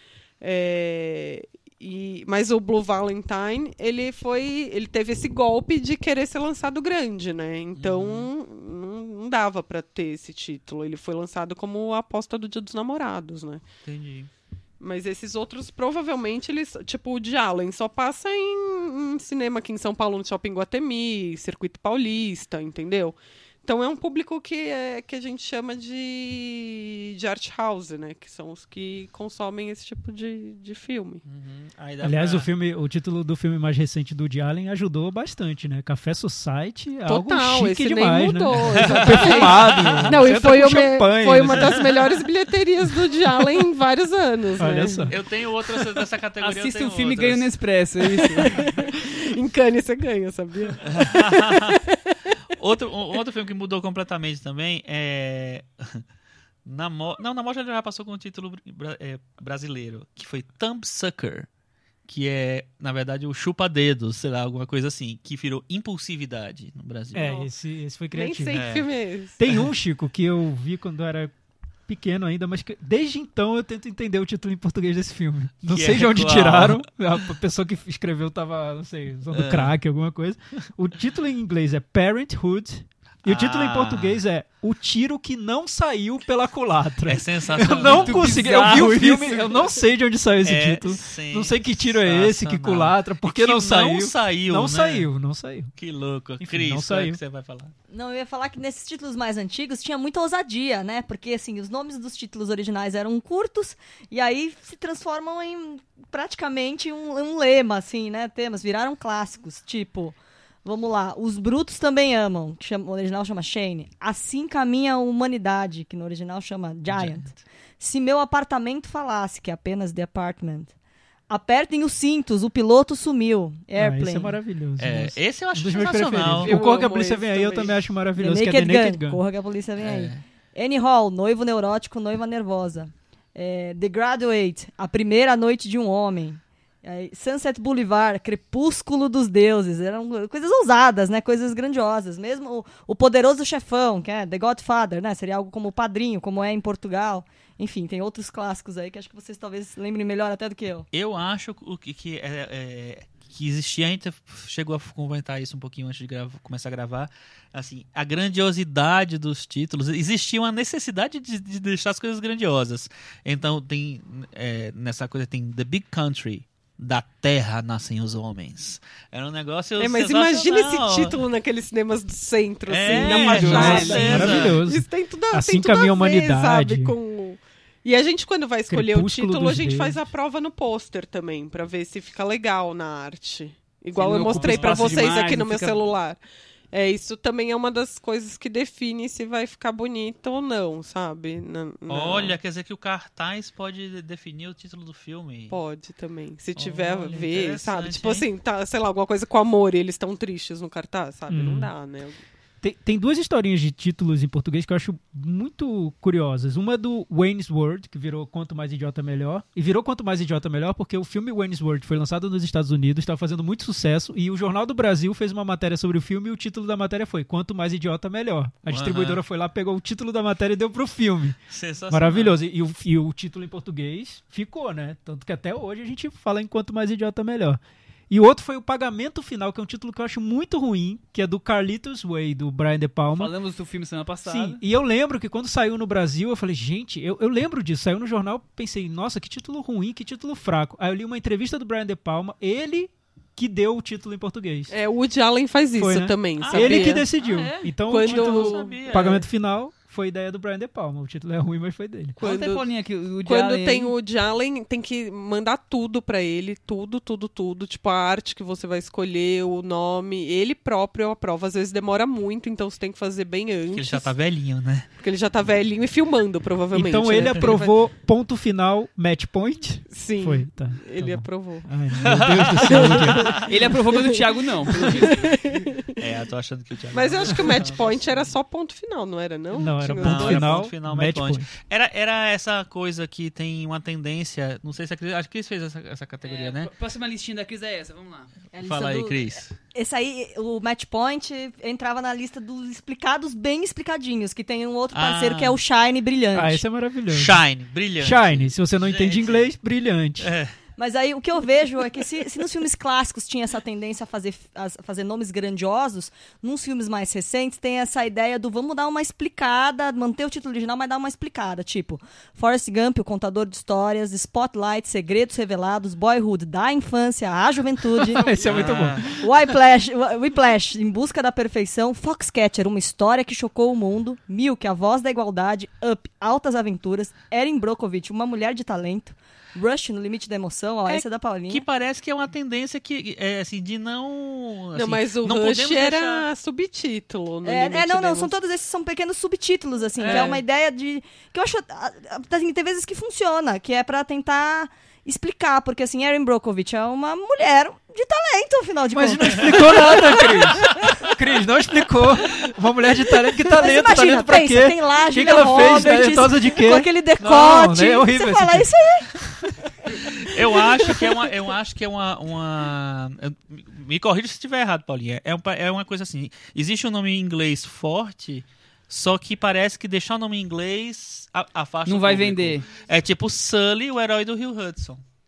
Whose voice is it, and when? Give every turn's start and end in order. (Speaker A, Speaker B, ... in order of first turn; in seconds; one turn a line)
Speaker A: 0.4-13.6
Speaker B: 7.8-8.3
Speaker B: 13.8-14.3
Speaker A: 14.8-31.2
Speaker B: 31.2-32.5
Speaker C: 32.0-42.0
Speaker A: 37.1-45.1
Speaker B: 38.8-40.3
Speaker C: 44.6-45.1
Speaker B: 45.1-47.5
Speaker D: 46.4-48.5
Speaker A: 48.2-52.3
Speaker B: 50.8-51.8
Speaker B: 52.5-56.0
Speaker B: 56.6-61.5
Speaker B: 62.0-67.3
Speaker C: 67.1-68.6
Speaker A: 67.2-67.5
Speaker A: 68.1-69.4
Speaker B: 68.5-68.9
Speaker C: 69.4-71.3
Speaker C: 71.9-95.7
Speaker B: 75.7-76.8
Speaker B: 79.3-79.7
Speaker B: 83.2-84.2
Speaker B: 87.0-88.5
Speaker D: 87.9-89.6
Speaker B: 90.4-95.1
Speaker B: 95.8-97.7
Speaker C: 96.4-97.2
Speaker E: 97.9-120.7
Speaker B: 116.9-117.2
Speaker E: 121.3-124.4
Speaker C: 123.7-129.2
Speaker B: 124.8-126.5
Speaker A: 126.4-127.8
Speaker E: 128.2-150.8
Speaker B: 129.8-130.2
Speaker B: 150.9-171.2
Speaker A: 169.8-186.2
Speaker B: 172.7-174.6
Speaker D: 172.9-174.3
Speaker C: 173.2-176.9
Speaker C: 178.7-180.1
Speaker D: 183.9-185.8
Speaker B: 184.2-185.2
Speaker A: 186.7-192.3
Speaker B: 191.9-195.6
Speaker A: 195.5-202.2
Speaker B: 196.6-198.2
Speaker C: 201.3-201.7
Speaker C: 202.6-221.4
Speaker B: 218.7-219.2
Speaker B: 221.5-222.3
Speaker C: 221.9-233.3
Speaker D: 233.1-234.6
Speaker C: 234.2-244.7
Speaker A: 244.7-247.1
Speaker C: 245.8-252.2
Speaker B: 246.4-247.0
Speaker D: 247.2-247.7
Speaker A: 247.9-249.2
Speaker B: 247.9-249.2
Speaker A: 252.2-252.7
Speaker D: 252.2-253.9
Speaker A: 253.2-264.1
Speaker B: 263.7-264.9
Speaker A: 265.0-267.7
Speaker C: 266.7-273.4
Speaker A: 269.9-271.7
Speaker B: 272.0-273.4
Speaker A: 272.7-274.2
Speaker D: 273.4-275.4
Speaker A: 274.8-276.0
Speaker B: 275.9-278.3
Speaker A: 276.9-280.6
Speaker C: 279.5-281.5
Speaker B: 280.0-286.7
Speaker D: 286.2-288.3
Speaker B: 288.5-289.6
Speaker E: 288.5-296.6
Speaker B: 294.9-295.6
Speaker C: 296.3-297.4
Speaker B: 297.1-299.5
Speaker C: 298.0-300.3
Speaker B: 300.2-300.5
Speaker E: 300.8-331.6
Speaker C: 317.9-319.5
Speaker B: 318.4-319.1
Speaker B: 330.9-336.3
Speaker A: 334.7-338.3
Speaker E: 337.4-351.0
Speaker D: 340.0-340.4
Speaker A: 340.1-340.4
Speaker C: 348.9-359.5
Speaker E: 353.4-359.1
Speaker B: 360.2-375.0
Speaker E: 360.8-361.1
Speaker D: 371.9-372.7